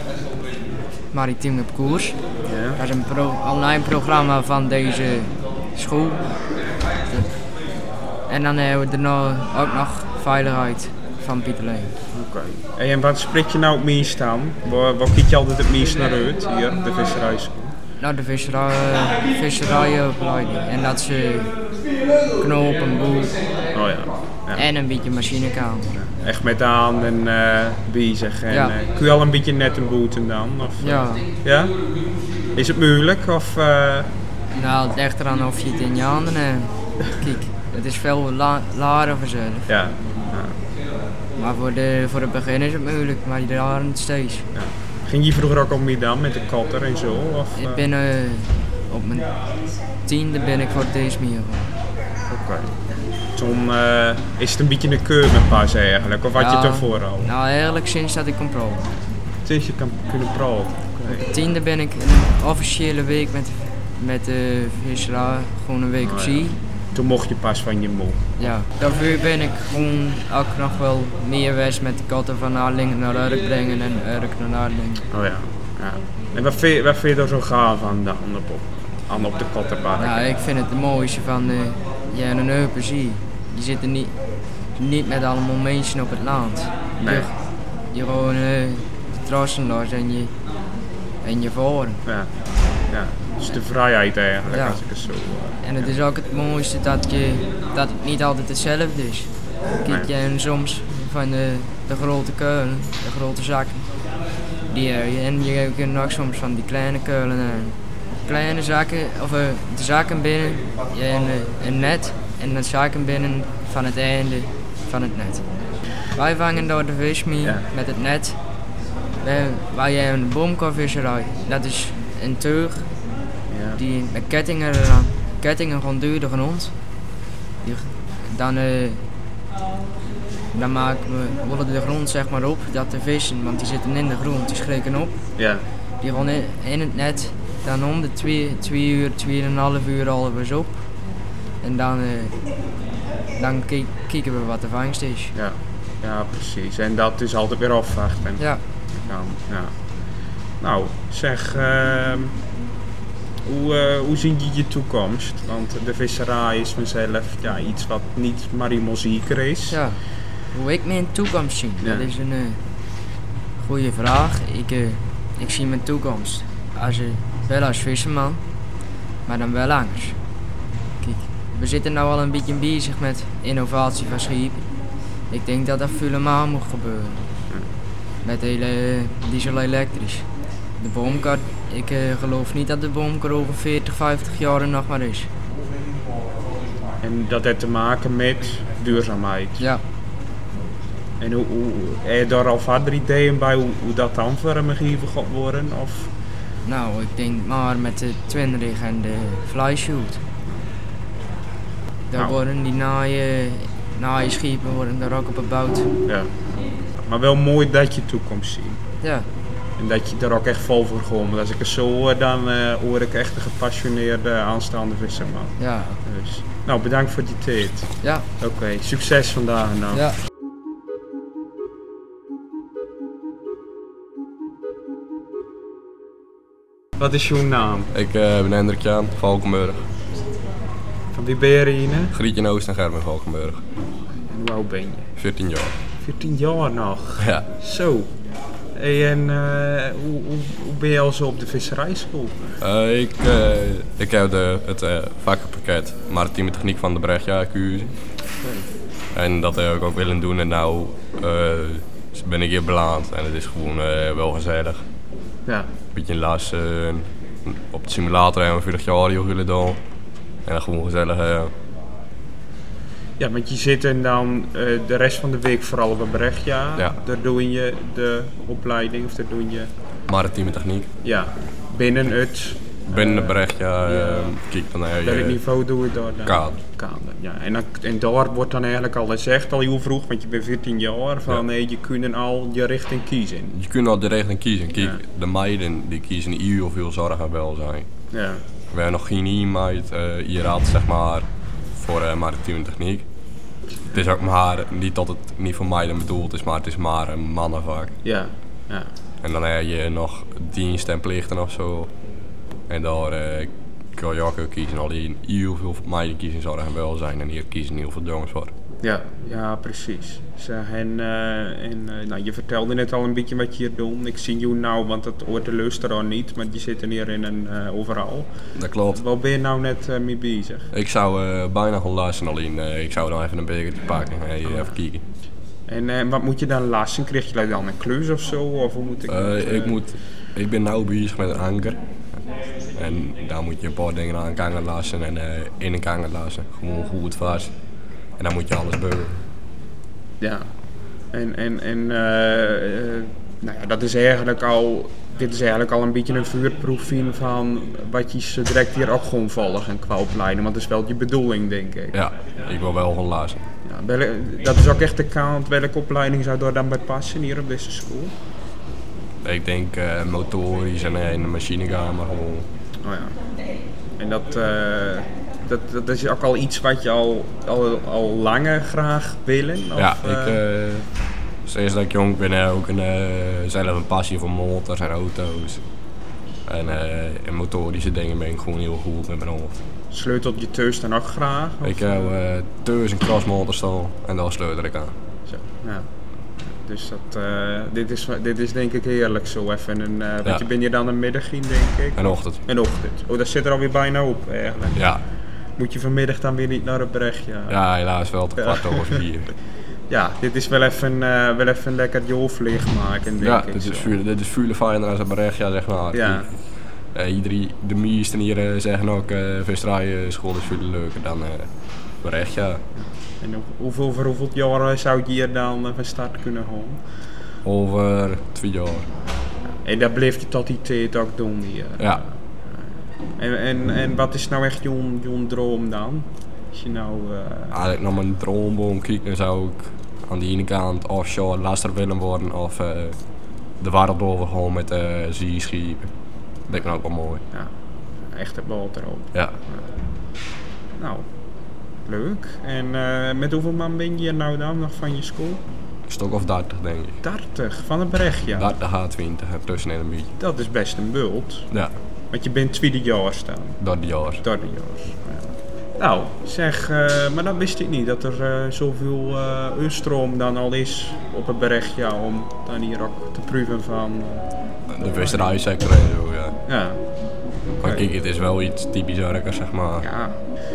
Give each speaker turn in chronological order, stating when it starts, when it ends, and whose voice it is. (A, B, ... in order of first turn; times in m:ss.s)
0:01.1-0:02.2 A
0:02.4-0:02.8 B
0:02.8-0:06.2 A
0:07.1-0:07.3 A
0:08.3-0:11.9 A
0:12.1-0:17.7 B
0:18.0-0:21.5 A
0:22.4-0:23.3 A
0:23.7-0:24.6 B
0:24.5-0:25.9 A
0:25.9-0:31.8 B
0:28.5-0:28.8 A
0:30.8-0:31.3 A
0:32.5-0:34.1 B
0:34.5-0:39.7 A
0:39.7-0:40.6 B
0:41.4-0:44.5 A
0:44.5-0:47.8 B
0:47.5-0:49.3 A
0:50.0-0:51.7 A
0:52.3-0:52.7 B
0:53.3-0:57.3 B
0:56.3-0:58.9 A
0:59.4-1:01.4 B
1:01.0-1:06.6 A
1:06.0-1:08.3 B
1:08.4-1:15.0 A
1:15.1-1:20.4 B
1:20.0-1:24.2 A
1:24.7-1:27.4 A
1:27.0-1:27.3 B
1:27.9-1:30.3 A
1:31.2-1:32.0 A
1:32.0-1:32.3 B
1:32.9-1:36.0 B
1:34.5-1:34.8 A
1:35.6-1:43.9 A
1:44.7-1:55.5 A
1:56.0-1:58.4 A
1:57.4-1:57.6 B
1:59.2-2:02.9 A
2:03.5-2:03.8 B
2:03.8-2:06.7 A
2:07.6-2:09.1 A
2:10.5-2:15.2 A
2:15.4-2:15.6 B
2:16.0-2:20.8 A
2:21.6-2:22.4 A
2:23.4-2:25.3 A
2:25.3-2:29.8 B
2:30.6-2:32.4 B
2:33.4-2:39.8 B
2:39.7-2:42.6 A
2:41.8-2:42.1 B
2:43.6-2:48.4 A
2:49.2-2:50.2 A
2:51.0-2:54.7 A
2:55.3-2:57.3 A
2:58.2-3:00.3 A
3:00.8-3:05.3 A
3:07.0-3:09.6 B
3:11.2-3:16.1 B
3:16.6-3:20.2 A
3:22.1-3:25.9 A
3:22.1-3:22.4 B
3:26.0-3:26.3 B
3:27.0-3:28.8 B
3:29.0-3:29.3 A
3:29.8-3:40.0 B
3:35.6-3:36.0 A
3:38.0-3:38.3 A
3:39.9-3:40.2 A
3:47.0-3:47.9 B
3:47.9-3:49.9 C
3:51.1-3:52.2 B
3:52.1-3:53.6 C
3:54.2-3:55.1 B
3:55.2-3:55.7 C
3:56.0-3:58.1 B
3:57.2-3:57.5 C
3:58.7-4:02.4 B
4:02.6-4:07.9 C
4:08.4-4:08.7 B
4:09.1-4:14.8 C
4:15.9-4:19.8 C
4:20.4-4:21.5 C
4:23.2-4:29.7 B
4:30.1-4:30.9 C
4:31.0-4:34.4 B
4:32.9-4:35.4 C
4:35.0-4:43.6 B
4:36.2-4:36.6 C
4:43.5-4:47.9 C
4:44.7-4:45.0 B
4:48.1-4:48.4 B
4:48.7-4:53.1 C
4:53.9-4:57.9 C
4:58.0-4:58.9 B
4:59.2-5:01.9 C
5:02.7-5:08.5 C
5:08.8-5:18.3 B
5:18.5-5:19.0 C
5:18.9-5:20.7 B
5:20.7-5:25.0 C
5:24.4-5:24.8 B
5:25.7-5:29.8 B
5:29.1-5:31.8 C
5:32.7-5:37.5 C
5:38.2-5:39.2 C
5:40.2-5:40.5 B
5:41.1-5:52.0 B
5:51.9-5:53.4 C
5:53.6-5:58.1 B
5:59.2-6:02.4 C
6:02.8-6:03.2 B
6:04.0-6:10.4 B
6:09.8-6:10.9 C
6:11.4-6:15.6 C
6:16.4-6:19.6 C
6:19.9-6:22.1 B
6:21.6-6:24.9 C
6:25.3-6:25.9 B
6:26.6-6:37.6 B
6:32.0-6:32.4 C
6:34.7-6:35.0 C
6:37.5-6:39.3 C
6:38.4-6:39.0 B
6:39.9-6:44.0 B
6:43.2-6:51.5 C
6:45.9-6:46.3 B
6:52.0-6:52.6 C
6:52.8-6:56.8 B
6:57.4-6:58.8 C
6:59.6-7:02.6 B
7:01.8-7:02.0 C
7:03.2-7:07.6 B
7:07.5-7:13.0 C
7:13.6-7:15.9 C
7:16.5-7:17.2 C
7:18.1-7:19.7 B
7:20.8-7:21.1 B
7:21.8-7:25.4 B
7:25.9-7:27.0 C
7:27.0-7:28.5 B
7:28.3-7:30.1 C
7:30.2-7:31.5 B
7:32.1-7:33.6 B
7:33.6-7:34.2 C
7:34.2-7:45.3 B
7:44.7-7:46.4 C
7:46.4-7:46.8 B
7:47.5-7:47.9 B
7:47.6-7:49.9 C
7:49.8-7:50.2 B